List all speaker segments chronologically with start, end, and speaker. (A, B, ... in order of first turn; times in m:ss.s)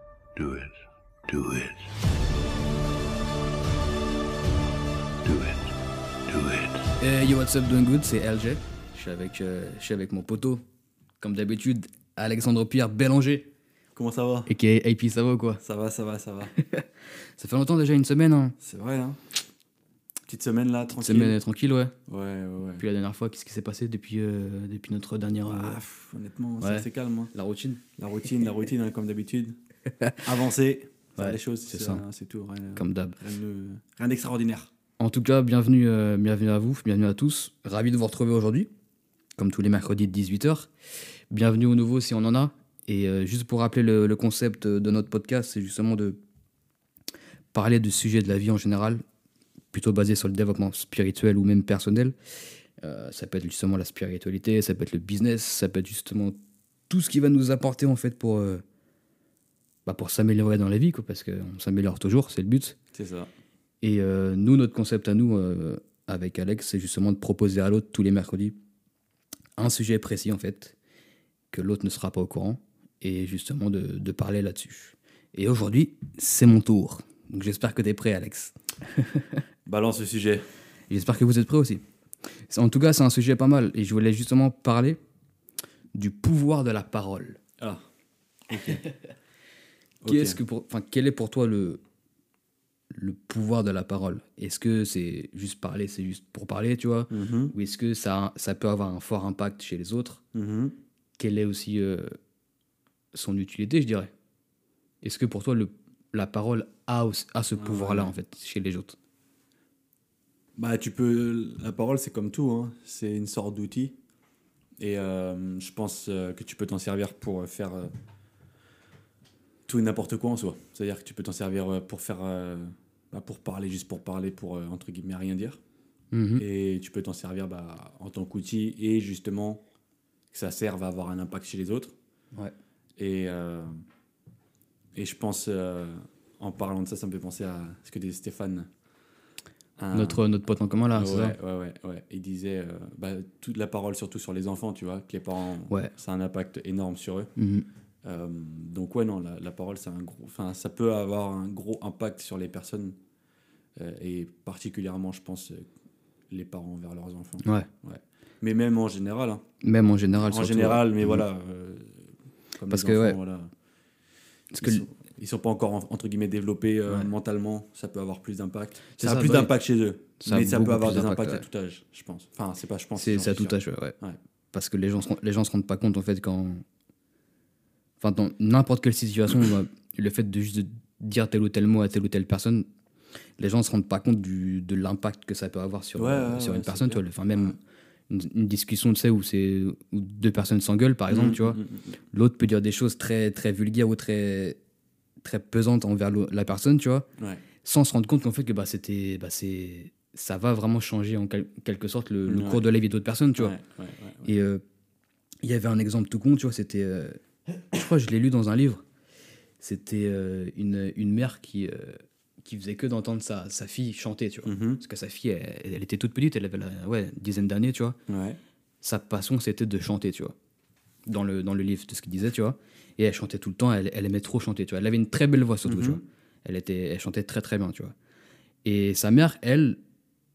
0:00.4-0:01.9 A
0:05.2-0:05.7 A
0:06.3-0:06.9 A
0:07.0-0:10.6 B
0:11.2-0:13.5 B
0:13.9-0:14.5 C
0:14.4-0:15.6 B
0:15.6-0:16.5 C
0:16.5-0:18.6 B
0:18.6-0:19.2 C
0:20.3-0:21.4 C
0:20.9-0:21.9 B
0:22.1-0:22.8 C
0:22.8-0:25.8 B
0:25.5-0:27.3 C
0:26.6-0:27.8 B
0:28.0-0:29.6 C
0:30.2-0:34.7 C
0:31.2-0:32.0 B
0:32.8-0:33.2 B
0:35.0-0:38.7 B
0:39.4-0:40.7 B
0:41.3-0:46.2 B
0:47.5-0:49.0 B
0:49.7-0:52.1 B
0:52.8-0:56.4 B
0:56.9-0:58.6 B
0:59.8-1:02.8 B
1:02.9-1:03.3 C
1:03.8-1:08.6 B
1:09.6-1:10.7 B
1:11.5-1:19.4 B
1:19.6-1:20.4 C
1:20.9-1:21.8 B
1:22.5-1:25.0 B
1:25.9-1:27.4 B
1:28.5-1:28.8 C
1:30.0-1:30.4 C
1:30.0-1:31.8 B
1:32.9-1:40.2 B
1:37.1-1:37.5 C
1:40.3-1:40.8 C
1:41.2-1:42.2 B
1:43.1-1:44.1 B
1:45.0-1:49.0 B
1:47.6-1:48.1 C
1:50.6-1:54.0 C
1:54.8-1:57.9 C
1:59.7-2:05.6 C
2:06.1-2:06.4 B
2:06.4-2:09.6 C
2:10.3-2:11.9 C
2:13.0-2:13.7 C
2:15.0-2:18.7 C
2:19.8-2:20.2 C
2:19.9-2:21.4 B
2:20.9-2:27.3 C
2:27.4-2:27.6 B
2:28.0-2:33.0 C
2:33.8-2:35.7 C
2:36.3-2:39.4 C
2:39.6-2:41.2 B
2:40.2-2:42.1 C
2:42.6-2:43.5 C
2:42.7-2:43.2 B
2:44.5-2:44.8 B
2:44.6-2:54.2 C
2:49.0-2:49.5 B
2:50.2-2:51.4 B
2:53.0-2:53.9 B
2:54.5-2:56.6 B
2:58.0-3:02.6 B
3:03.4-3:07.6 B
3:06.0-3:07.6 C
3:08.1-3:11.6 B
3:11.1-3:11.9 C
3:12.1-3:14.6 B
3:15.2-3:17.1 B
3:17.6-3:23.6 B
3:22.3-3:22.6 C
3:23.4-3:24.3 C
3:24.2-3:24.6 B
3:25.4-3:27.2 B
3:27.7-3:28.8 B
3:29.6-3:38.0 B
3:34.4-3:34.8 C
3:38.1-3:38.4 C
3:38.8-3:40.3 B
3:41.0-3:47.9 B
3:45.6-3:46.0 C
3:48.6-3:49.8 B